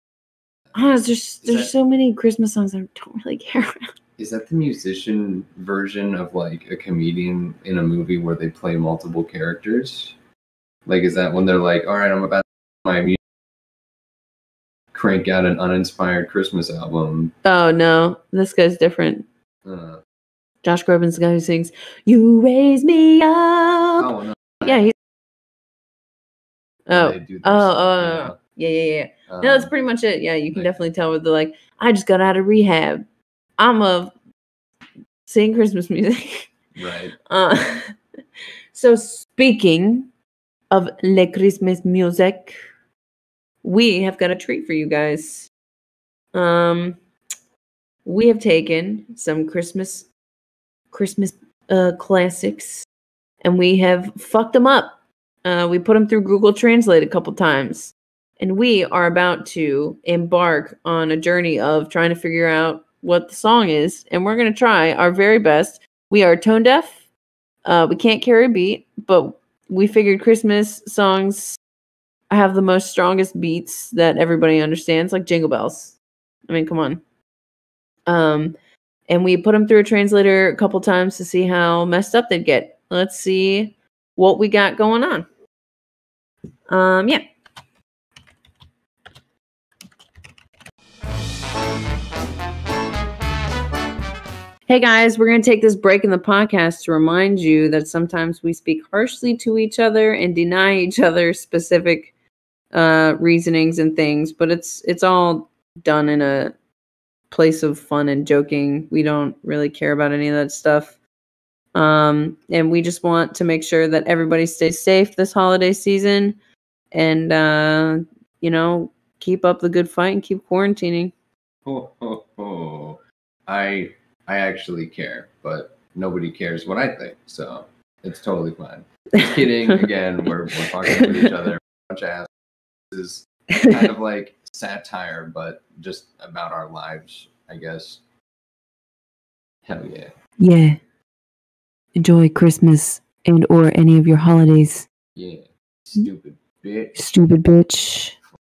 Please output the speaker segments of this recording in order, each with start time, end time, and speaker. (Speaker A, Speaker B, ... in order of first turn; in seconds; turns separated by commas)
Speaker A: 0.7-3.8, Speaker B: 1.4-1.7, Speaker B: 4.2-10.1, Speaker B: 10.8-13.2, Speaker B: 14.9-17.3, Speaker A: 17.4-19.2, Speaker B: 19.6-20.0, Speaker A: 20.6-24.1, Speaker B: 24.0-24.8, Speaker A: 24.6-24.9, Speaker A: 26.9-33.0, Speaker B: 26.9-28.4, Speaker B: 29.3-29.7, Speaker B: 30.5-30.8, Speaker A: 33.6-34.1, Speaker A: 35.2-36.5, Speaker B: 36.7-37.2, Speaker A: 37.3-37.9, Speaker A: 38.7-40.1, Speaker A: 40.7-42.5, Speaker A: 43.6-45.5, Speaker A: 46.3-47.0, Speaker A: 48.0-50.1, Speaker A: 50.9-52.9, Speaker A: 53.4-67.0, Speaker A: 67.6-71.6, Speaker A: 72.3-77.0, Speaker A: 78.1-78.5, Speaker A: 79.1-85.2, Speaker A: 86.7-87.2, Speaker A: 94.7-102.1, Speaker A: 102.7-106.5, Speaker A: 107.3-111.0, Speaker A: 111.7-116.4, Speaker A: 116.9-121.1, Speaker B: 121.6-132.3, Speaker A: 130.9-131.1, Speaker B: 132.9-138.0, Speaker B: 139.7-140.1, Speaker A: 140.4-140.8, Speaker A: 141.9-144.9, Speaker B: 145.1-147.1, Speaker A: 146.9-148.1